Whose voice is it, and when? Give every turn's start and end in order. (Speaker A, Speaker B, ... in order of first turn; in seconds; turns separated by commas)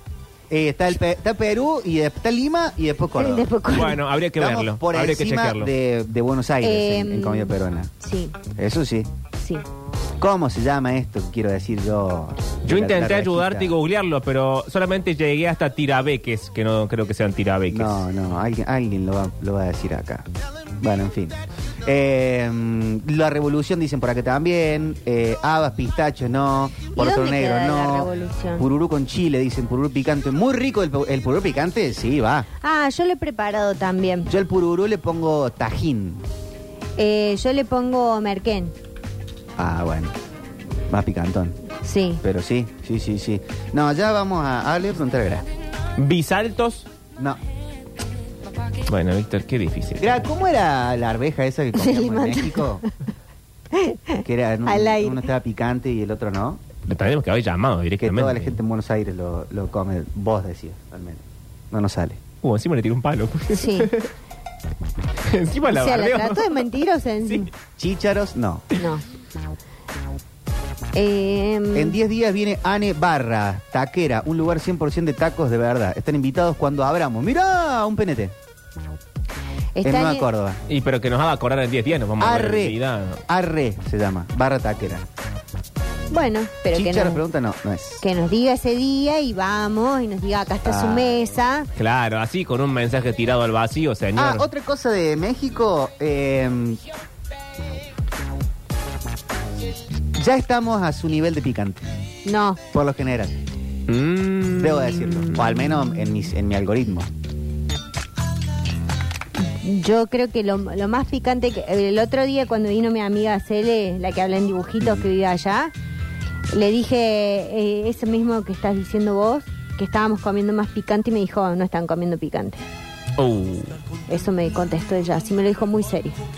Speaker A: 0.5-3.5, Speaker B: 3.2-4.0, Speaker C: 3.7-5.7, Speaker A: 4.4-7.9, Speaker B: 6.6-8.4, Speaker A: 8.5-9.1, Speaker A: 10.2-13.7, Speaker C: 12.7-18.1, Speaker A: 17.7-20.3, Speaker A: 20.8-32.5, Speaker B: 26.9-28.7, Speaker B: 32.6-34.3, Speaker A: 34.3-36.2, Speaker B: 37.0-38.7, Speaker A: 39.6-40.1, Speaker A: 40.9-41.6, Speaker B: 41.8-42.2, Speaker A: 42.2-45.5, Speaker C: 46.0-46.9, Speaker C: 48.9-50.1, Speaker A: 50.0-52.8, Speaker B: 51.8-52.9, Speaker B: 53.7-55.2, Speaker A: 54.2-56.6, Speaker C: 56.9-58.6, Speaker A: 58.0-62.2, Speaker C: 62.4-64.1, Speaker B: 63.5-63.9, Speaker C: 65.3-66.6, Speaker B: 65.7-67.5, Speaker A: 67.8-68.7, Speaker B: 68.8-69.0, Speaker B: 70.9-72.0, Speaker A: 71.7-78.3, Speaker B: 79.8-80.3, Speaker A: 79.8-80.6, Speaker C: 80.7-83.2, Speaker A: 82.2-85.0, Speaker B: 86.1-87.2, Speaker A: 86.7-88.0, Speaker B: 88.0-91.7, Speaker A: 90.6-91.2, Speaker C: 91.8-94.5, Speaker A: 94.2-96.8, Speaker A: 100.1-101.9, Speaker B: 102.2-102.6, Speaker A: 102.7-103.3, Speaker C: 103.9-105.5, Speaker A: 104.6-107.1, Speaker B: 109.5-115.7, Speaker B: 116.5-122.6, Speaker C: 123.2-123.8, Speaker B: 124.1-126.2